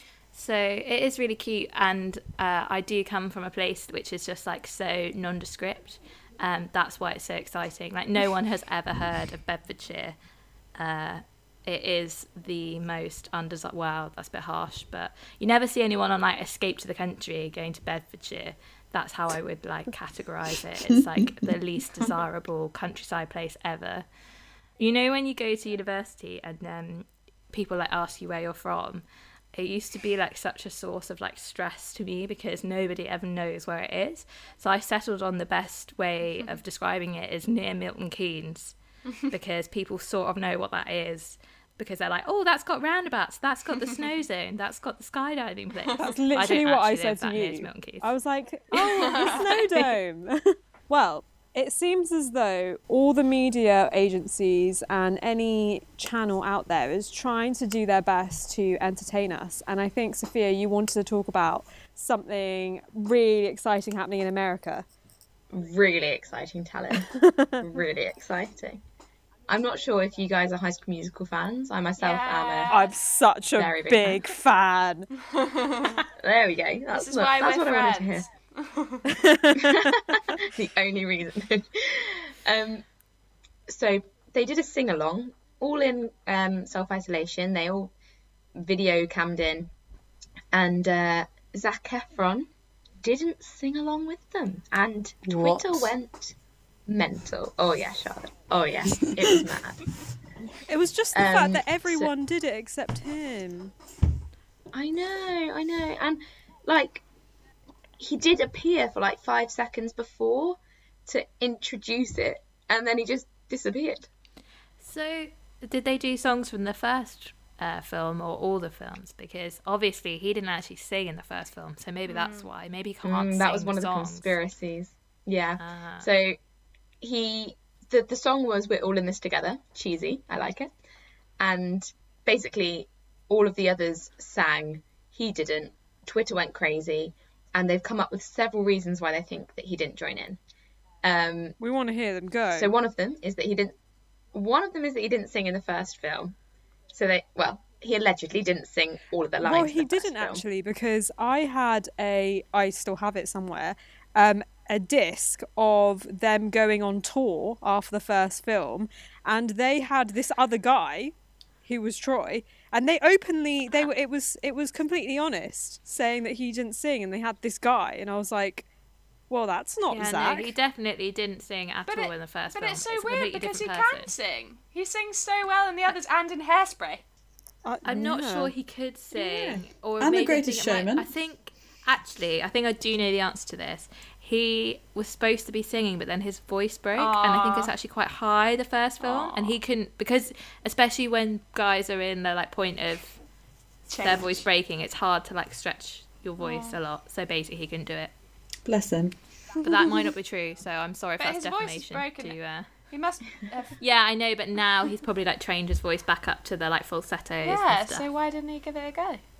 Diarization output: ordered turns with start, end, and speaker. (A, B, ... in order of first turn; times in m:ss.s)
0:00.3-0:10.2 A
0:10.8-0:24.0 A
0:21.0-0:21.6 B
0:24.8-0:29.0 A
0:29.5-0:38.8 A
0:39.3-0:48.1 A
0:46.0-1:04.8 C
0:49.0-0:49.5 D
1:05.5-1:08.8 E
1:07.2-1:07.6 C
1:09.5-1:12.7 E
1:12.0-1:12.9 D
1:12.7-1:15.1 C
1:13.5-1:14.4 E
1:15.3-1:15.9 D
1:16.2-1:18.2 E
1:16.9-1:19.0 D
1:19.1-1:19.6 C
1:19.6-1:22.8 E
1:23.7-1:27.9 E
1:28.6-1:29.7 E
1:30.5-1:32.5 E
1:33.0-1:36.4 E
1:35.2-1:35.9 B
1:36.9-1:39.8 E
1:40.7-1:43.7 C
1:41.1-1:42.1 E
1:44.7-1:47.0 E
1:48.0-1:54.1 E
1:54.8-2:04.3 A
2:02.1-2:02.5 D
2:03.0-2:06.4 E
2:05.6-2:06.1 A
2:07.0-2:10.7 E
2:11.4-2:20.4 E
2:21.0-2:21.6 E
2:21.6-2:22.7 C
2:22.5-2:23.7 E
2:24.3-2:26.3 E
2:26.9-2:30.4 E
2:29.4-2:41.1 C
2:41.6-2:48.7 C
2:49.3-2:50.5 C
2:49.9-2:54.1 A
2:51.9-2:57.0 D
2:57.6-2:58.5 C
2:57.8-3:13.2 A
3:00.0-3:01.1 B
3:07.0-3:07.7 D
3:09.0-3:09.6 D
3:13.9-3:14.4 D
3:14.0-3:18.1 A
3:16.4-3:16.8 D
3:18.6-3:19.1 B
3:19.6-3:22.7 A
3:21.2-3:22.4 D
3:22.9-3:23.8 D
3:23.8-3:28.0 A
3:27.4-3:29.2 D